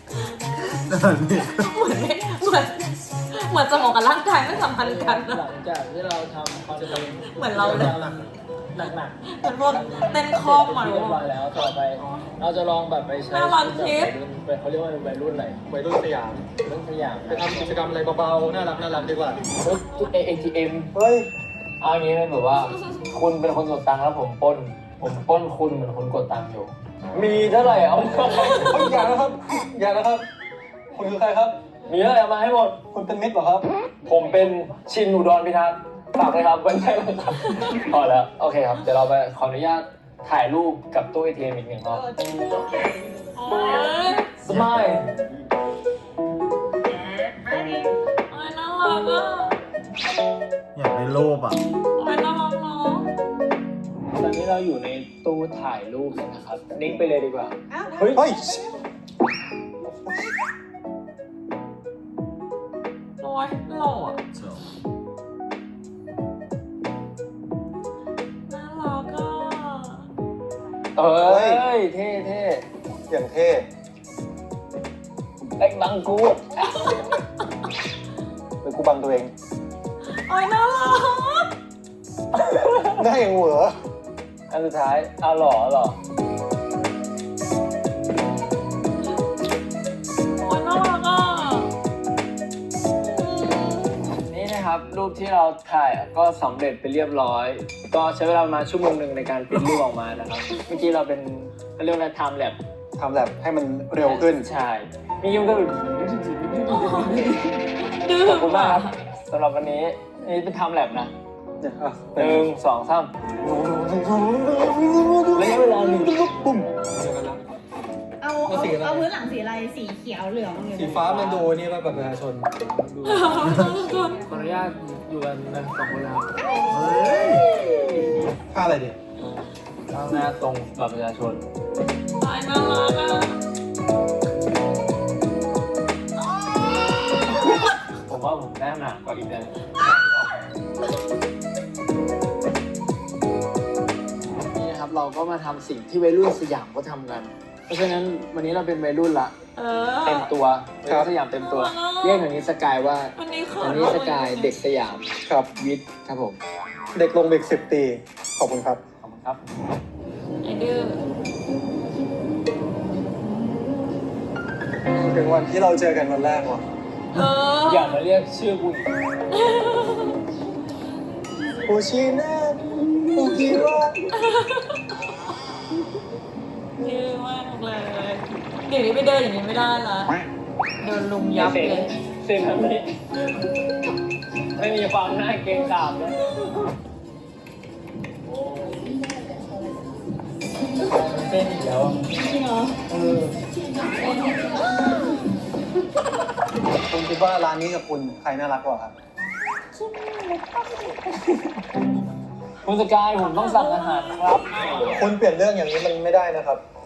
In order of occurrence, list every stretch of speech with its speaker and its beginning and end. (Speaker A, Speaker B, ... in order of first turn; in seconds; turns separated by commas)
Speaker A: 0.6-1.9, Speaker B: 1.6-5.4, Speaker C: 4.8-15.6, Speaker B: 7.3-8.0, Speaker D: 7.6-8.1, Speaker B: 9.3-11.2, Speaker B: 12.0-12.3, Speaker B: 13.3-14.2, Speaker D: 15.7-16.5, Speaker C: 16.6-18.0, Speaker D: 17.3-19.4, Speaker C: 19.6-20.9, Speaker D: 20.9-21.3, Speaker C: 21.8-28.9, Speaker D: 28.6-30.2, Speaker D: 30.9-31.6, Speaker C: 31.9-32.8, Speaker D: 32.9-33.6, Speaker C: 34.0-42.1, Speaker E: 42.6-43.3, Speaker B: 43.4-44.4, Speaker C: 44.4-45.0, Speaker A: 44.5-45.0, Speaker E: 47.4-47.9, Speaker B: 48.3-49.6, Speaker A: 50.8-51.6, Speaker B: 52.0-53.1, Speaker C: 54.2-58.2, Speaker E: 57.7-58.3, Speaker D: 58.1-58.6, Speaker B: 63.2-64.2, Speaker A: 64.3-64.7, Speaker B: 68.5-70.1, Speaker C: 71.0-72.7, Speaker D: 71.2-71.6, Speaker D: 73.1-73.7, Speaker C: 75.6-77.1, Speaker D: 78.6-79.3, Speaker B: 80.1-81.5, Speaker C: 82.5-82.8, Speaker D: 82.8-83.8, Speaker C: 84.5-86.0, Speaker B: 90.4-91.7, Speaker B: 93.1-94.1, Speaker C: 94.2-102.6, Speaker D: 103.0-104.5, Speaker C: 104.0-107.5, Speaker B: 106.7-109.0, Speaker C: 108.2-111.1, Speaker D: 111.6-112.5, Speaker C: 112.2-113.1, Speaker D: 113.4-117.4, Speaker C: 115.3-116.2, Speaker E: 118.2-121.1, Speaker D: 118.5-119.1, Speaker D: 120.8-122.5, Speaker C: 120.8-121.5, Speaker C: 122.6-126.3, Speaker B: 123.1-124.3, Speaker E: 124.0-124.4, Speaker A: 126.7-127.5, Speaker C: 127.9-128.3, Speaker D: 128.5-129.0, Speaker C: 129.9-131.4, Speaker B: 132.2-133.4, Speaker C: 138.1-140.3, Speaker C: 144.5-149.3, Speaker B: 149.6-150.3, Speaker C: 150.1-155.9, Speaker D: 150.9-151.1, Speaker B: 151.4-152.3, Speaker B: 153.2-154.5, Speaker D: 155.3-156.4, Speaker D: 156.9-158.8, Speaker C: 159.0-159.4, Speaker B: 160.4-161.0, Speaker D: 164.9-166.6, Speaker B: 167.1-168.0, Speaker C: 167.6-168.9, Speaker B: 169.3-170.2, Speaker D: 171.7-174.0, Speaker B: 174.1-175.0, Speaker B: 176.8-180.2, Speaker B: 180.8-181.9, Speaker C: 181.4-182.9, Speaker C: 184.6-186.2, Speaker C: 190.8-193.3, Speaker B: 193.8-194.6, Speaker D: 196.9-198.9, Speaker B: 199.8-200.9, Speaker C: 201.1-201.5, Speaker C: 202.6-205.1, Speaker B: 203.2-204.6, Speaker D: 204.9-206.6